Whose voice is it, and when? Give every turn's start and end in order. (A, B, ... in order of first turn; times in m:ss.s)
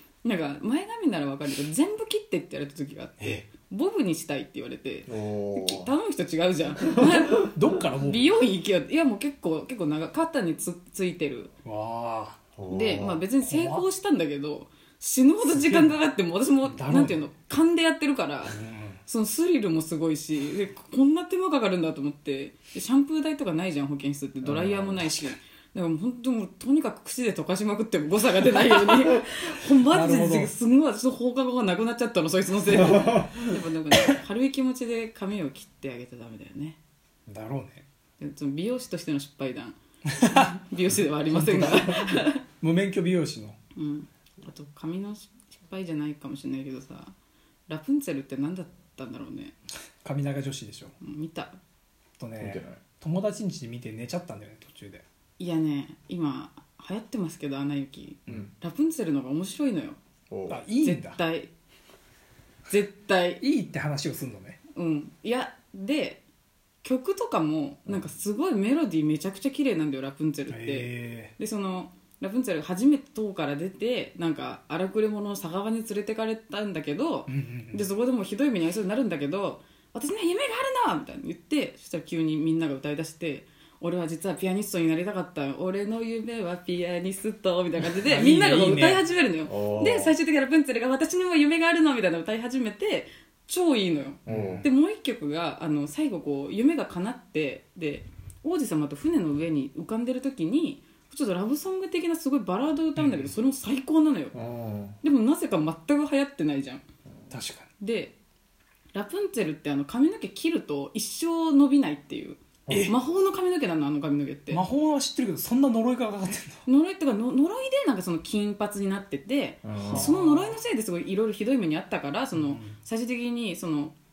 0:00.2-0:11.5 A
0:03.2-0:03.4 B
0:05.1-0:05.9 C
0:07.1-0:08.3 B
0:11.6-0:12.4 B
0:12.5-0:13.2 C
0:12.7-0:36.8 A
0:13.4-0:13.8 B
0:15.6-0:15.9 B
0:16.6-0:17.2 B
0:18.4-0:19.0 B
0:24.4-0:25.0 C
0:25.0-0:25.3 B
0:28.6-0:29.1 B
0:29.8-0:30.5 B
0:32.7-0:33.4 C
0:37.3-0:37.8 B
0:38.2-0:42.4 A
0:40.2-0:40.5 B
0:41.3-0:43.6 B
0:43.7-0:47.1 A
0:47.7-0:49.5 A
0:50.0-0:50.9 B
0:51.0-0:51.6 A
0:52.2-0:55.0 B
0:52.4-0:52.8 C
0:55.4-1:00.0 A
1:00.3-1:00.6 C
1:00.5-1:01.2 B
1:00.8-1:01.5 A
1:02.7-1:03.4 A
1:03.4-1:04.6 B
1:04.7-1:06.2 A
1:06.8-1:44.4 A
1:10.5-1:11.3 B
1:17.3-1:17.8 B
1:28.0-1:29.0 B
1:29.4-1:30.1 C
1:34.2-1:34.6 C
1:34.2-1:34.7 B
1:43.0-1:43.3 B
1:44.3-1:45.0 C
1:45.0-1:46.8 A
1:47.3-1:47.7 B
1:47.8-1:48.1 A
1:48.9-1:54.6 A
1:52.7-1:52.9 B
1:54.5-1:56.6 B
1:56.6-2:03.9 A
1:59.6-2:00.2 C
1:59.8-2:00.5 B
2:02.3-2:02.8 B